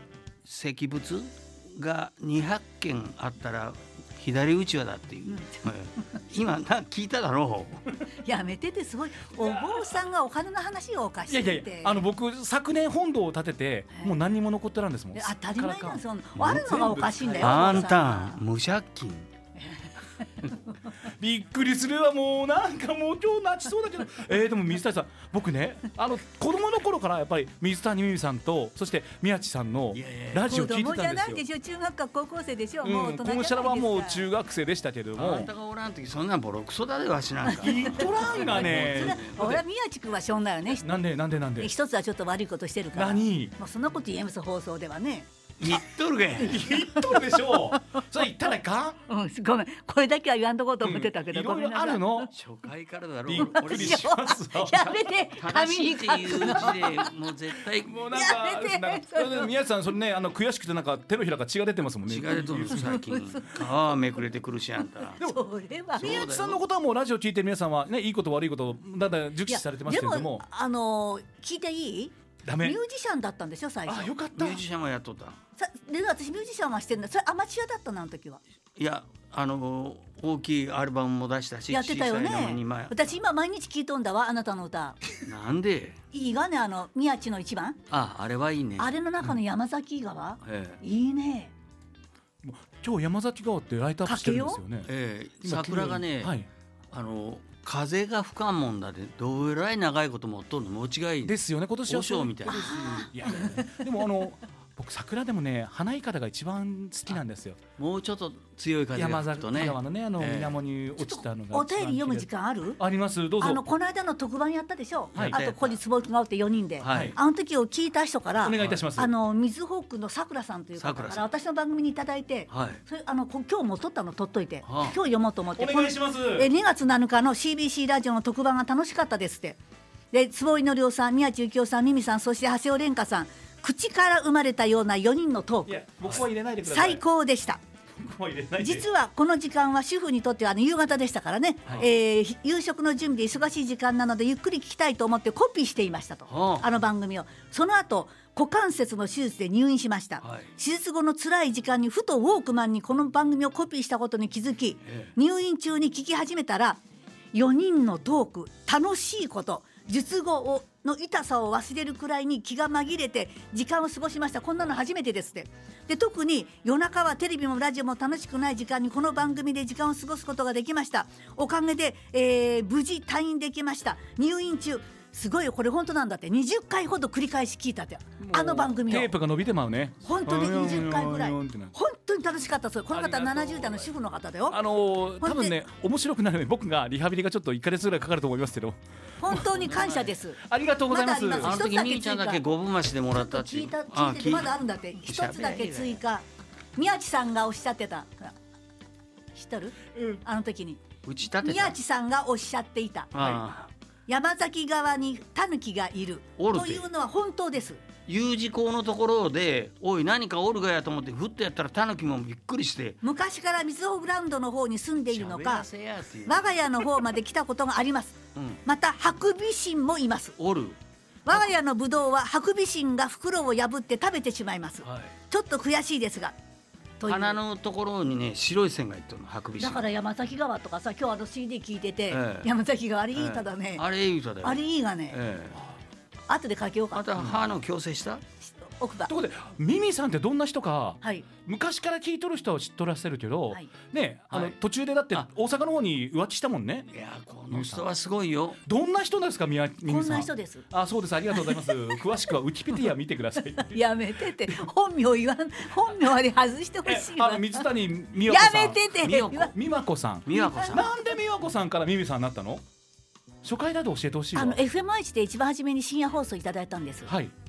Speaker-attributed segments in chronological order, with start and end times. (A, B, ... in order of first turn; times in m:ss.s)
0:00.4-0:07.8 A
0:05.2-0:06.2 B
0:08.2-0:12.0 B
0:09.3-0:09.9 C
0:11.3-0:17.9 C
0:13.9-0:14.2 B
0:15.1-0:18.4 B
0:17.4-0:19.3 A
0:19.6-0:19.9 B
0:21.2-0:31.4 C
0:29.9-0:30.5 A
0:30.4-0:34.3 B
0:32.8-0:35.5 C
0:35.2-0:39.6 A
0:37.4-0:40.9 B
0:37.6-0:39.6 C
0:40.8-0:41.7 C
0:41.6-0:45.3 B
0:42.9-0:43.5 C
0:45.6-0:46.6 A
0:46.4-0:49.0 C
0:46.4-0:48.0 B
0:49.1-0:52.3 B
0:50.8-0:52.3 C
0:52.3-0:54.1 A
0:53.2-0:55.1 C
0:53.4-0:57.1 B
0:55.4-0:58.0 A
0:57.8-1:03.0 C
0:58.1-0:59.5 B
1:02.0-1:05.2 A
1:02.8-1:03.6 B
1:05.1-1:06.4 B
1:06.0-1:10.4 C
1:06.0-1:06.6 A
1:09.5-1:14.1 B
1:12.4-1:12.8 C
1:13.8-1:14.6 C
1:14.3-1:15.4 A
1:15.6-1:18.4 B
1:18.8-1:23.0 A
1:21.7-1:25.0 B
1:25.2-1:26.0 A
1:26.1-1:27.8 B
1:27.9-1:28.9 A
1:28.8-1:31.5 B
1:30.4-1:30.8 A
1:32.4-1:34.9 C
1:34.0-1:34.6 B
1:34.8-1:36.3 A
1:35.4-1:36.5 C
1:36.9-1:41.3 A
1:41.2-1:47.6 C
1:41.9-1:42.7 A
1:42.4-1:43.8 B
1:47.8-1:50.5 A
1:48.9-1:53.6 C
1:51.0-1:52.8 B
1:53.4-2:09.6 B
1:55.1-1:55.4 C
1:55.2-1:55.8 A
1:56.8-1:57.2 A
1:56.9-1:57.2 C
1:58.4-1:59.1 C
2:00.8-2:01.3 A
2:02.5-2:02.8 A
2:04.6-2:05.0 A
2:05.6-2:06.5 C
2:10.1-2:15.8 B
2:15.6-2:17.0 C
2:16.6-2:17.6 B
2:18.0-2:18.8 C
2:18.6-2:36.8 B
2:26.3-2:26.7 A
2:30.2-2:30.5 A
2:34.8-2:35.1 A
2:37.3-2:59.2 B
2:58.2-3:01.7 C
3:00.0-3:04.6 B
3:02.9-3:03.9 C
3:04.5-3:09.5 C
3:05.2-3:05.6 B
3:09.2-3:12.4 B
3:09.6-3:10.1 A
3:10.4-3:11.6 C
3:11.4-3:16.0 A
3:13.1-3:16.2 B
3:16.8-3:18.3 B
3:19.3-3:20.8 B
3:20.0-3:20.2 C
3:21.0-3:21.8 A
3:21.4-3:23.1 B
3:23.1-3:23.7 A
3:24.1-3:27.8 B
3:26.4-3:26.8 A
3:28.1-3:33.0 A
3:33.0-3:35.7 B
3:35.1-3:36.6 A
3:36.2-3:40.4 B
3:38.4-3:38.6 A
3:40.4-3:40.8 A
3:41.2-3:46.3 B
3:44.8-3:45.1 A
3:47.0-3:47.4 B
3:47.0-3:49.8 A
3:49.6-3:53.8 B
3:52.1-3:52.5 A
3:53.2-3:55.6 A
3:54.4-3:55.2 B
3:56.3-3:57.0 B
3:56.9-3:58.2 A
3:57.2-3:57.4 C
3:58.4-3:59.1 B
3:59.1-4:06.9 C
4:04.3-4:04.6 A
4:06.9-4:08.6 A
4:07.5-4:07.9 C
4:08.6-4:13.8 C
4:09.8-4:10.6 B
4:11.4-4:11.7 B
4:13.6-4:17.7 B
4:16.8-4:22.6 C
4:18.2-4:19.5 B
4:19.0-4:19.5 A
4:20.2-4:20.9 A
4:20.3-4:21.0 B
4:23.4-4:24.6 C
4:24.3-4:27.1 B
4:27.1-4:27.3 C